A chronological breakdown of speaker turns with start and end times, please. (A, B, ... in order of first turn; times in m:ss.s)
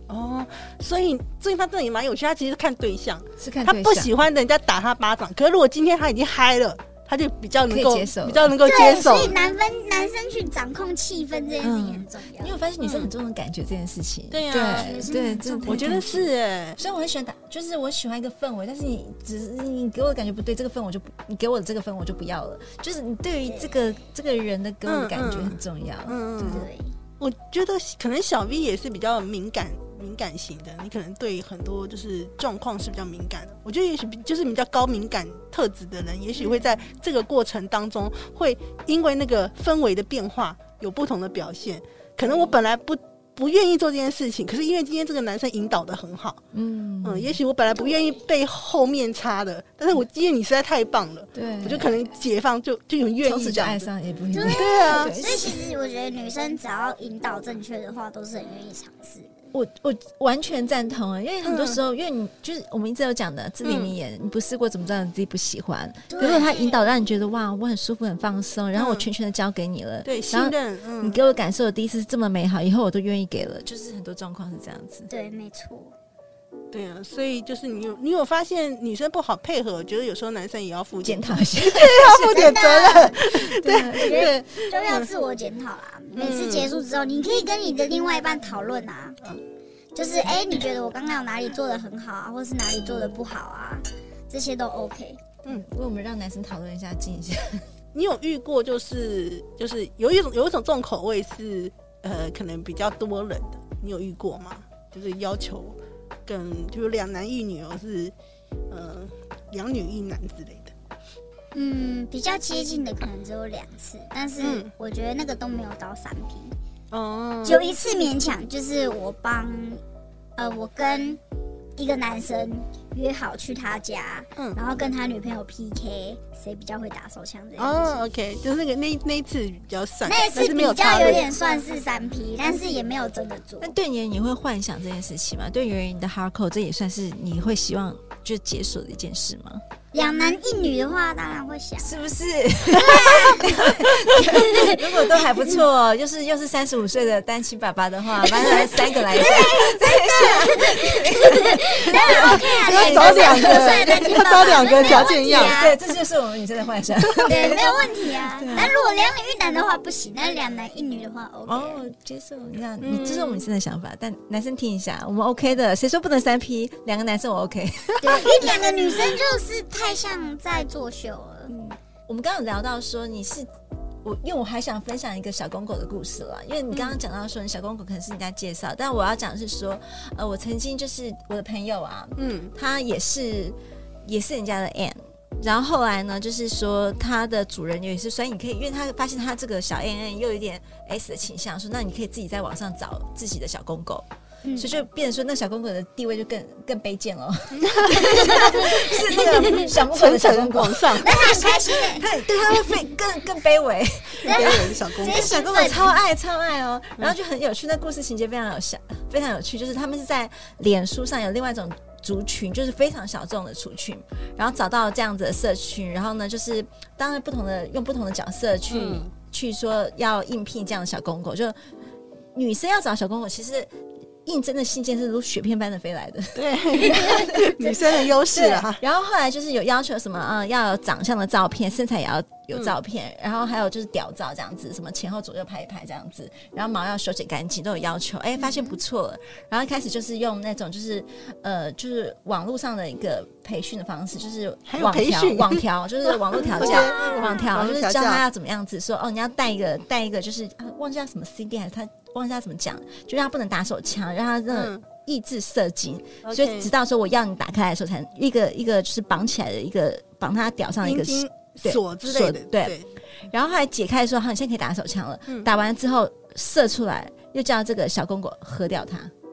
0:00.1-0:09.4 A
0:03.4-0:04.1 B
0:07.7-0:08.5 B
0:08.6-0:12.6 C
0:11.6-0:26.2 B
0:12.8-0:13.1 A
0:14.3-0:15.0 A
0:14.5-0:15.9 C
0:15.6-0:16.8 A
0:23.4-0:23.9 C
0:24.8-0:26.7 A
0:26.4-0:26.9 C
0:27.2-0:46.4 A
0:36.4-0:36.9 C
0:46.5-0:47.4 B
0:47.0-0:53.9 A
0:51.3-0:52.1 B
0:53.2-0:55.6 B
0:54.3-0:59.4 C
0:54.4-0:55.1 A
0:59.5-1:15.1 B
1:01.4-1:01.8 A
1:03.6-1:03.9 A
1:06.1-1:06.8 C
1:08.7-1:09.1 A
1:10.0-1:11.2 A
1:15.1-1:15.9 C
1:16.7-1:25.1 A
1:21.0-1:22.5 B
1:22.2-1:23.2 C
1:23.2-1:24.3 B
1:23.9-1:29.2 C
1:26.2-1:26.7 A
1:29.9-1:35.2 C
1:35.5-1:37.6 B
1:37.9-1:48.1 A
1:48.7-1:50.7 A
1:51.5-1:56.6 C
1:54.4-1:54.7 A
1:56.9-1:57.6 A
1:57.4-1:59.8 C
2:00.4-2:01.2 C
2:01.8-2:08.0 C
2:07.6-2:11.3 A
2:10.1-2:13.7 C
2:13.6-2:19.6 B
2:19.9-2:21.9 C
2:21.8-2:38.7 B
2:22.8-2:23.5 C
2:24.2-2:24.8 C
2:28.2-2:35.8 C
2:32.0-2:35.6 A
2:37.2-2:41.9 C
2:41.4-2:48.4 B
2:42.8-2:43.5 A
2:48.0-2:51.5 C
2:51.5-2:53.5 B
2:54.0-3:14.0 B
3:02.2-3:02.5 A
3:14.4-3:14.8 C
3:14.6-3:41.7 B
3:17.6-3:18.6 A
3:18.5-3:19.7 C
3:19.7-3:21.2 A
3:21.0-3:22.0 C
3:24.2-3:25.3 A
3:24.2-3:25.9 C
3:38.7-3:39.1 A
3:42.3-3:43.7 B
3:44.2-4:22.8 B
3:46.3-3:48.8 A
4:04.7-4:08.2 A
4:06.8-4:07.4 C
4:14.5-4:14.8 A
4:16.2-4:16.7 A
4:20.8-4:22.9 A
4:23.3-4:29.1 B